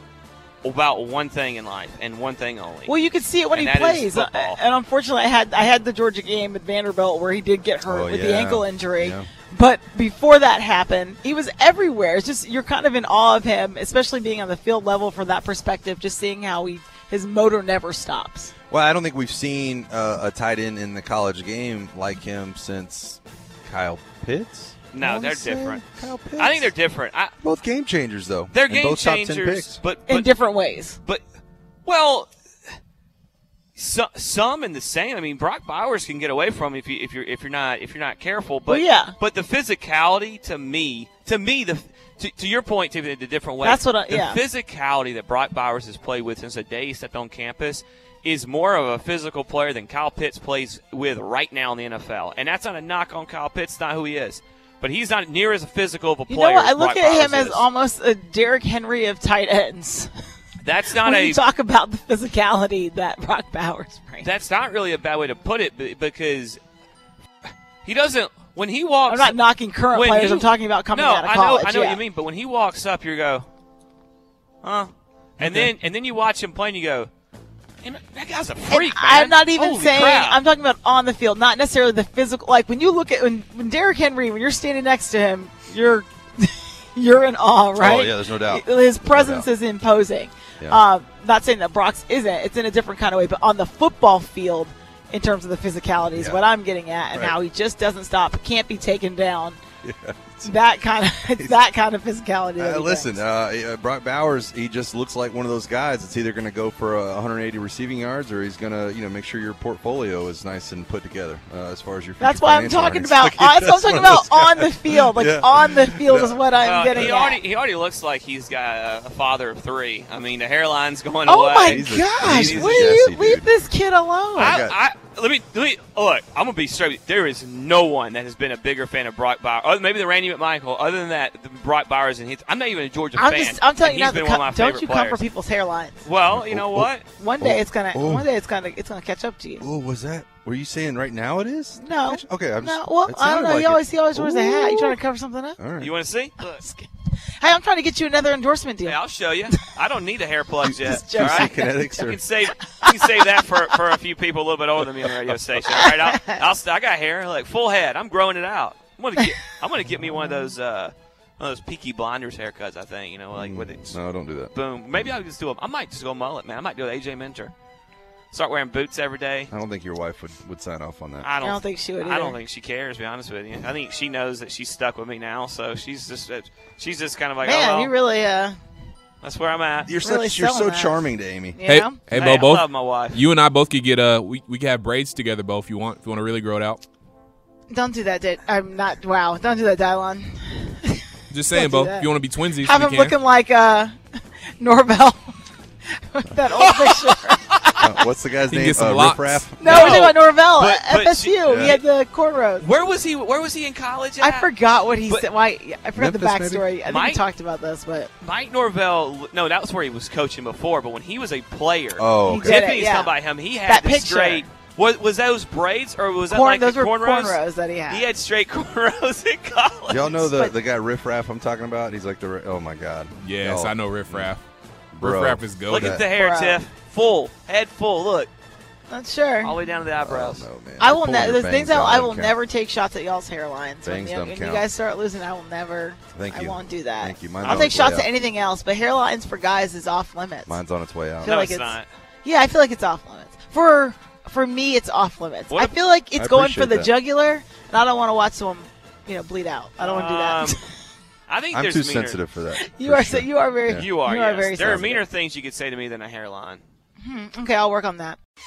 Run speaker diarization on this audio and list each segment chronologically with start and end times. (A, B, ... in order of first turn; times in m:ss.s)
0:00.6-0:02.9 A
0:02.9-0:18.5 B
0:03.5-0:04.6 A
0:07.8-0:09.3 C
0:18.7-0:26.7 C
0:24.9-0:25.8 A
0:26.4-0:27.3 A
0:27.4-0:29.8 C
0:28.5-0:30.3 A
0:30.1-0:31.0 B
0:31.9-0:32.3 A
0:33.8-0:57.7 A
0:38.7-0:39.2 B
0:43.6-0:44.4 B
0:56.3-1:00.1 B
1:00.6-1:01.4 A
1:00.9-1:04.3 B
1:04.2-1:06.6 A
1:07.8-1:13.5 A
1:09.1-1:12.0 B
1:14.6-1:17.1 A
1:15.4-1:15.7 C
1:17.8-1:20.4 A
1:18.7-1:39.6 B
1:27.8-1:29.5 C
1:36.2-1:36.4 C
1:37.1-1:37.4 C
1:39.8-1:40.6 C
1:40.4-1:43.2 B
1:42.6-1:57.2 C
1:52.2-1:57.4 B
1:56.6-2:03.0 A
2:01.3-2:04.6 B
2:01.6-2:03.5 C
2:04.4-2:04.8 C
2:04.4-2:15.2 A
2:13.2-2:16.1 B
2:16.0-2:17.1 A
2:16.3-2:18.3 C
2:17.1-2:19.6 B
2:19.6-2:25.0 C
2:21.8-2:25.6 B
2:25.6-2:26.0 C
2:25.8-2:26.6 A
2:26.5-2:26.9 B
2:27.4-2:29.6 B
2:28.8-2:44.0 A
2:30.7-2:32.2 C
2:30.8-2:32.0 B
2:32.6-2:33.2 B
2:35.7-2:36.4 B
2:43.4-2:44.5 C
2:44.5-2:47.5 A
2:48.3-2:49.5 A
2:49.5-2:51.3 C
2:51.2-2:57.9 A
2:51.4-2:52.4 B
2:57.4-2:58.6 B
2:59.2-2:59.9 A
2:59.9-3:01.6 C
3:00.0-3:02.0 B
3:01.6-3:06.8 D
3:02.1-3:03.2 A
3:07.7-3:14.0 B
3:11.3-3:13.2 D
3:14.6-3:15.4 B
3:16.0-3:18.1 B
3:16.6-3:17.0 A
3:17.8-3:20.1 C
3:18.5-3:19.5 D
3:19.6-3:22.7 B
3:19.6-3:21.8 A
3:21.5-3:21.8 C
3:22.6-3:24.5 A
3:24.2-3:28.1 B
3:26.0-3:26.7 C
3:26.8-3:27.2 A
3:28.2-3:40.2 A
3:32.0-3:32.6 C
3:32.2-3:34.5 B
3:36.3-3:38.1 B
3:39.9-3:44.4 C
3:40.1-3:40.6 B
3:43.2-3:44.4 D
3:44.9-3:46.1 C
3:45.0-3:46.0 D
3:45.7-3:48.3 A
3:46.0-3:46.6 B
3:48.9-3:49.7 B
3:49.4-3:50.5 A
3:50.0-3:52.4 C
3:50.8-4:00.6 B
3:53.8-3:54.7 C
3:56.1-3:58.1 C
3:57.4-3:57.7 A
4:00.5-4:01.4 C
4:01.2-4:10.6 B
4:01.2-4:01.9 A
4:06.2-4:06.9 C
4:09.8-4:10.6 A
4:11.3-4:12.2 A
4:11.5-4:13.9 C
4:12.5-4:15.0 B
4:13.7-4:16.6 A
4:14.6-4:15.0 C
4:17.0-4:18.2 B